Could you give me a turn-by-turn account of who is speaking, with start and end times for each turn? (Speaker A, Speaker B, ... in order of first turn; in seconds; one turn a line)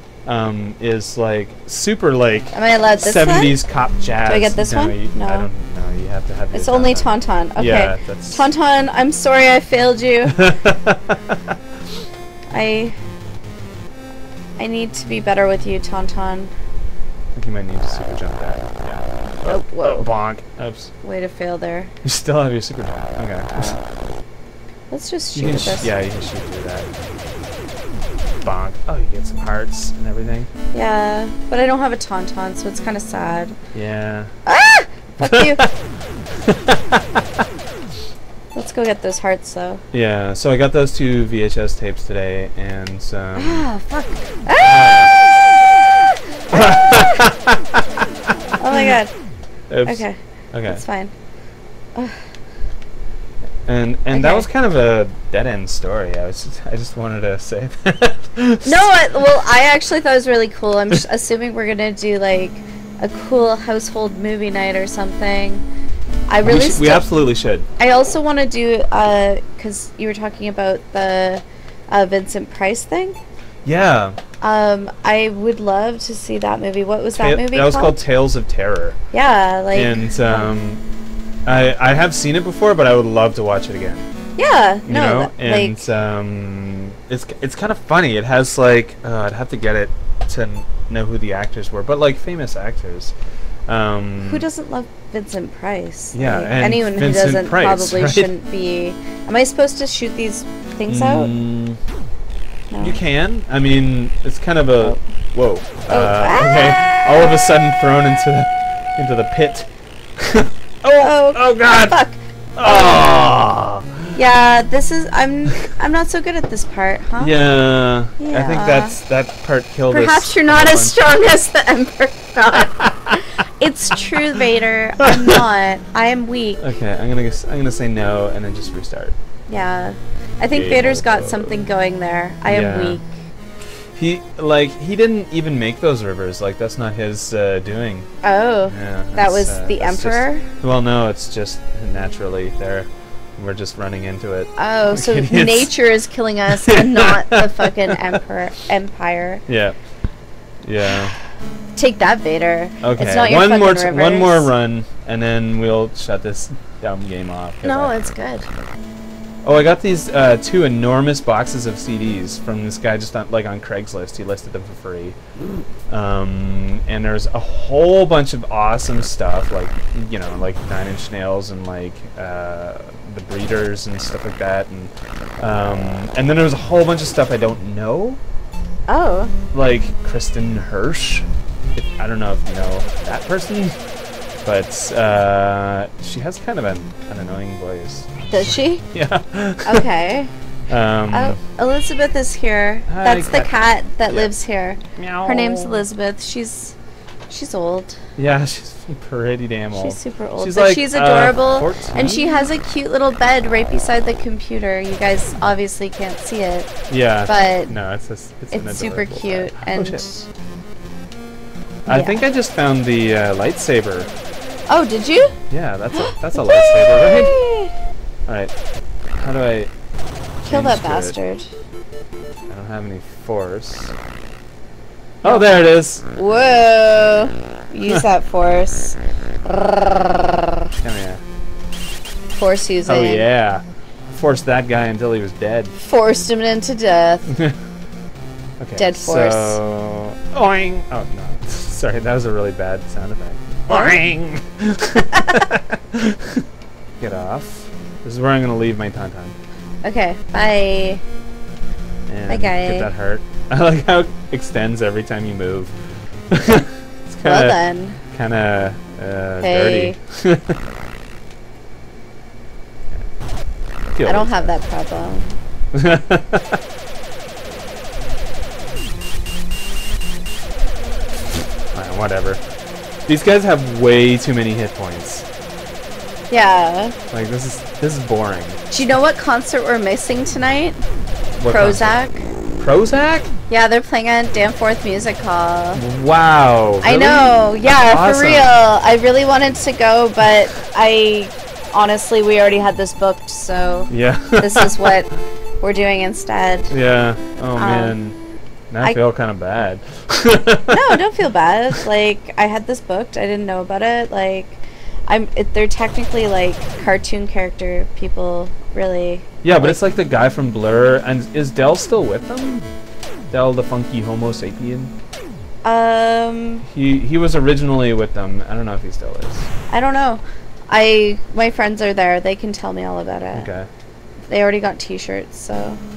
Speaker A: 0.2-8.4
Speaker B: 2.5-3.6
Speaker B: 4.2-5.5
Speaker B: 6.5-10.4
Speaker A: 10.3-11.4
Speaker B: 12.5-12.9
Speaker B: 14.6-16.5
Speaker A: 17.4-20.9
Speaker B: 19.4-20.1
Speaker B: 21.0-21.9
Speaker A: 22.0-23.7
Speaker B: 23.5-23.9
Speaker B: 24.9-25.9
Speaker A: 25.3-26.9
Speaker A: 28.4-30.5
Speaker B: 30.7-33.6
Speaker A: 33.7-34.3
Speaker B: 34.5-35.6
Speaker A: 35.2-35.7
Speaker A: 36.4-37.0
Speaker B: 38.5-39.8
Speaker A: 39.9-43.7
Speaker B: 43.4-45.2
Speaker A: 44.6-45.1
Speaker B: 46.5-47.2
Speaker A: 46.5-47.8
Speaker B: 48.6-49.1
Speaker A: 49.7-50.8
Speaker B: 49.8-51.1
Speaker B: 51.9-52.2
Speaker A: 53.6-58.9
Speaker B: 54.1-54.5
Speaker B: 58.6-65.6
Speaker B: 66.3-67.0
Speaker A: 66.4-67.7
Speaker B: 67.8-73.2
Speaker A: 73.6-74.2
Speaker B: 74.4-78.0
Speaker A: 77.1-79.0
Speaker B: 79.1-80.5
Speaker A: 79.7-80.8
Speaker A: 81.5-84.0
Speaker B: 84.4-85.9
Speaker A: 84.8-93.1
Speaker A: 93.7-94.4
Speaker B: 94.2-101.3
Speaker A: 96.1-98.3
Speaker A: 100.9-101.8
Speaker B: 102.7-103.0
Speaker A: 102.8-112.0
Speaker B: 105.9-107.4
Speaker B: 111.0-113.2
Speaker A: 112.6-114.1
Speaker B: 114.1-117.3
Speaker A: 117.2-121.0
Speaker B: 118.2-119.0
Speaker B: 119.9-126.6
Speaker A: 122.8-123.2
Speaker A: 125.0-125.4
Speaker A: 126.6-129.2
Speaker B: 129.5-133.1
Speaker A: 130.5-131.7
Speaker A: 132.4-133.0
Speaker A: 133.9-138.1
Speaker B: 138.2-140.4
Speaker A: 138.7-145.7
Speaker B: 144.6-149.4
Speaker A: 146.6-148.2
Speaker A: 149.5-149.8
Speaker A: 150.6-151.2
Speaker B: 151.8-154.5
Speaker A: 152.8-157.9
Speaker B: 157.6-158.5
Speaker A: 159.4-165.2
Speaker A: 165.9-178.2
Speaker B: 178.9-179.3
Speaker A: 179.5-183.7
Speaker A: 184.4-188.3
Speaker B: 188.3-188.8
Speaker A: 188.9-189.9
Speaker B: 189.6-190.3
Speaker A: 190.7-191.4
Speaker B: 191.1-196.8
Speaker A: 192.9-193.5
Speaker A: 194.0-194.3
Speaker A: 194.9-195.8
Speaker B: 197.3-198.0
Speaker A: 198.2-202.5
Speaker B: 199.7-207.7
Speaker A: 206.9-210.1
Speaker B: 208.5-210.2
Speaker A: 211.8-214.1
Speaker B: 211.9-212.2
Speaker B: 214.7-215.4
Speaker A: 215.5-217.3
Speaker B: 215.9-217.7
Speaker A: 218.3-218.5
Speaker A: 219.2-219.7
Speaker A: 220.4-221.2
Speaker B: 220.4-221.5
Speaker A: 222.5-223.9
Speaker A: 225.2-226.1
Speaker B: 225.2-225.5
Speaker B: 226.1-230.6
Speaker A: 230.8-231.2
Speaker B: 232.3-233.2
Speaker A: 232.8-235.7
Speaker B: 235.8-237.3
Speaker A: 237.3-237.6
Speaker A: 238.6-246.4
Speaker B: 238.8-239.6
Speaker B: 243.7-244.0
Speaker B: 245.0-245.4
Speaker A: 247.0-249.3
Speaker B: 249.8-251.0
Speaker A: 252.1-255.7
Speaker B: 252.3-252.9
Speaker A: 256.3-260.6
Speaker B: 257.2-258.0
Speaker B: 259.4-260.0
Speaker A: 263.9-264.5
Speaker B: 264.0-265.4
Speaker A: 265.7-266.6
Speaker A: 271.7-272.4
Speaker A: 273.1-275.2
Speaker B: 276.3-276.9
Speaker A: 277.1-278.6
Speaker B: 278.7-280.8
Speaker A: 281.4-282.0
Speaker B: 281.5-282.3
Speaker A: 282.6-283.3
Speaker B: 283.5-285.8
Speaker A: 285.7-288.5
Speaker B: 286.8-295.1
Speaker A: 293.9-294.9
Speaker B: 295.6-296.7
Speaker A: 296.7-298.1
Speaker B: 297.6-297.9
Speaker A: 298.7-300.9
Speaker B: 300.7-309.7
Speaker A: 309.4-312.6
Speaker A: 313.3-314.9
Speaker B: 315.6-316.6
Speaker A: 316.6-319.5
Speaker B: 319.7-323.5
Speaker A: 323.3-323.7
Speaker B: 324.3-325.8